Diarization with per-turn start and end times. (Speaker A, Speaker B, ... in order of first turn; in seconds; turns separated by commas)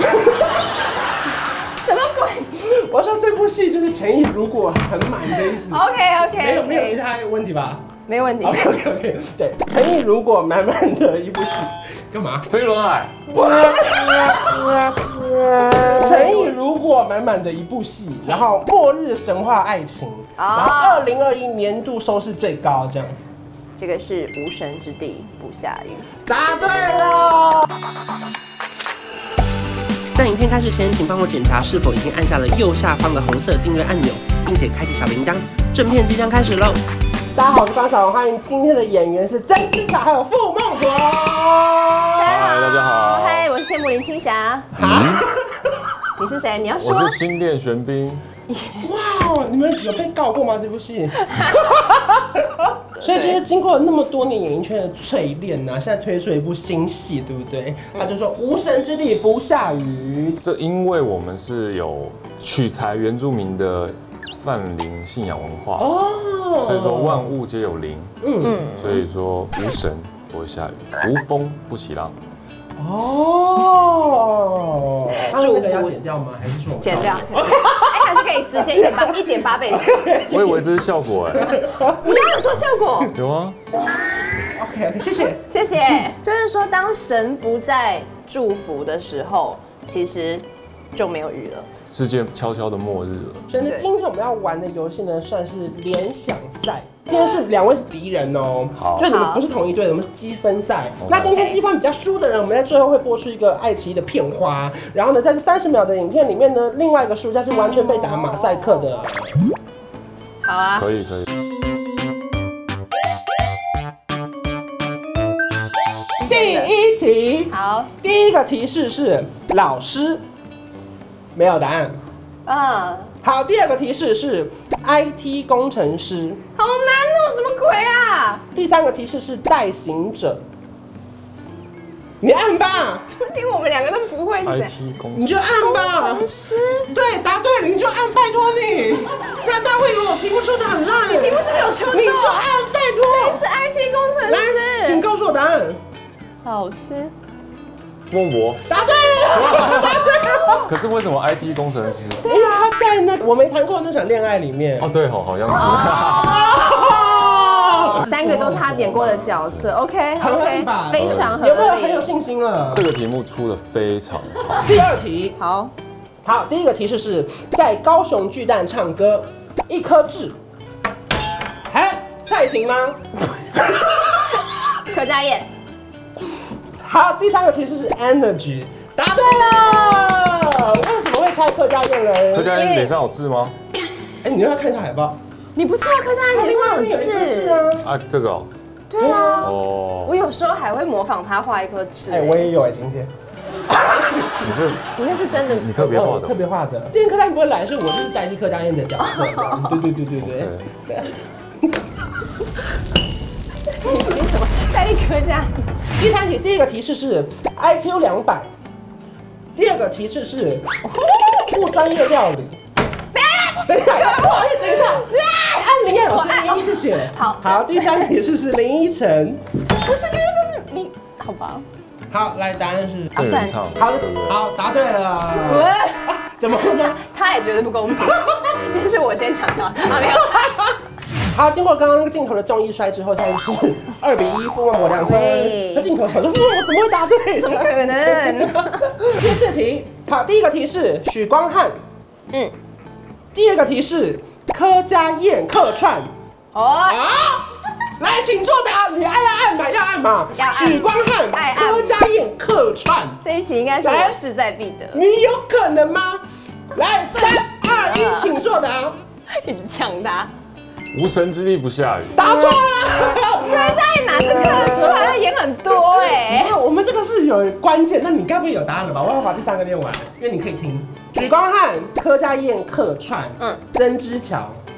Speaker A: 1.8-2.5, Speaker B: 2.6-5.8, Speaker A: 5.7-7.0, Speaker B: 6.4-7.9, Speaker A: 8.1-8.7, Speaker B: 8.4-12.5, Speaker C: 12.5-13.2, Speaker B: 13.5-14.3, Speaker B: 15.7-23.2, Speaker A: 15.9-16.5, Speaker A: 20.4-21.1, Speaker A: 23.8-26.1, Speaker B: 26.2-27.7, Speaker B: 30.1-36.8, Speaker B: 37.3-42.3, Speaker A: 42.2-44.7, Speaker C: 42.2-43.5, Speaker B: 44.8-45.6, Speaker C: 44.8-45.2, Speaker A: 46.2-47.2, Speaker C: 46.8-48.2, Speaker A: 48.5-48.9, Speaker B: 48.8-60.4, Speaker A: 51.2-51.7, Speaker A: 53.0-53.4, Speaker C: 60.4-65.9, Speaker B: 65.8-67.3, Speaker C: 66.6-68.1, Speaker B: 68.2-68.7, Speaker A: 68.4-69.0, Speaker C: 68.7-72.2, Speaker B: 72.8-80.6, Speaker A: 75.3-76.0, Speaker A: 76.8-80.1, Speaker C: 80.3-81.6, Speaker B: 81.4-82.2, Speaker A: 82.0-83.1, Speaker C: 83.1-83.6, Speaker B: 84.5-85.4, Speaker A: 85.4-91.7, Speaker C: 91.8-93.4, Speaker B: 93.5-109.4, Speaker A: 93.6-93.9, Speaker C: 98.8-99.0, Speaker A: 99.0-99.4, Speaker C: 101.0-101.3, Speaker A: 101.3-101.6, Speaker A: 107.8-109.0, Speaker A: 110.4-110.9, Speaker C: 110.8-111.3, Speaker A: 116.2-116.7, Speaker B: 116.2-120.2, Speaker A: 117.5-117.9, Speaker B: 121.3-122.0, Speaker A: 122.5-123.1, Speaker B: 123.2-126.4, Speaker A: 126.5-128.4, Speaker B: 128.5-130.4, Speaker B: 132.2-133.0, Speaker A: 133.0-134.7, Speaker C: 134.4-135.4, Speaker B: 135.2-136.3, Speaker A: 135.6-136.9, Speaker B: 136.9-143.4, Speaker A: 141.0-145.0, Speaker B: 144.2-145.8, Speaker A: 146.4-147.1, Speaker C: 148.1-148.7, Speaker B: 148.7-150.7, Speaker C: 149.3-150.1, Speaker C: 150.7-152.2, Speaker A: 152.2-152.7, Speaker B: 152.2-154.9, Speaker C: 154.8-156.5, Speaker A: 155.5-162.1, Speaker B: 155.9-159.4, Speaker B: 160.2-162.9, Speaker C: 161.0-161.4, Speaker C: 162.7-164.7, Speaker B: 164.6-165.4, Speaker A: 165.4-165.7, Speaker B: 166.2-170.3, Speaker B: 171.7-173.0, Speaker B: 173.6-174.4, Speaker A: 174.8-175.5, Speaker B: 176.8-182.5, Speaker C: 182.3-183.5, Speaker A: 182.5-182.9, Speaker B: 184.2-185.2, Speaker A: 185.5-187.6, Speaker B: 186.3-187.8, Speaker C: 187.8-188.5, Speaker A: 188.9-192.5, Speaker B: 189.0-189.5, Speaker C: 189.4-190.1, Speaker B: 192.1-193.1, Speaker C: 194.3-196.4, Speaker A: 195.0-195.7, Speaker B: 195.8-201.2, Speaker A: 199.0-199.9, Speaker C: 200.2-200.7, Speaker A: 203.7-205.7, Speaker B: 206.0-208.5, Speaker B: 209.6-210.7, Speaker A: 210.8-211.5, Speaker B: 211.2-212.6, Speaker A: 213.1-218.1, Speaker B: 213.6-219.4, Speaker A: 219.8-221.6, Speaker B: 222.1-223.2, Speaker A: 223.2-223.6, Speaker C: 223.2-224.4, Speaker B: 223.7-227.0, Speaker A: 225.4-226.0, Speaker A: 227.0-230.7, Speaker B: 228.0-228.4, Speaker B: 231.3-241.7, Speaker A: 234.9-235.9, Speaker A: 237.3-238.9, Speaker B: 243.3-246.1, Speaker A: 246.5-247.0, Speaker B: 246.8-253.2, Speaker A: 250.4-252.0, Speaker A: 253.2-255.0, Speaker B: 253.8-254.2, Speaker B: 254.9-256.2, Speaker B: 256.7-258.9, Speaker A: 257.3-258.4, Speaker A: 259.4-260.3, Speaker C: 260.9-262.2, Speaker B: 262.1-265.2, Speaker A: 263.4-266.5, Speaker B: 265.7-274.6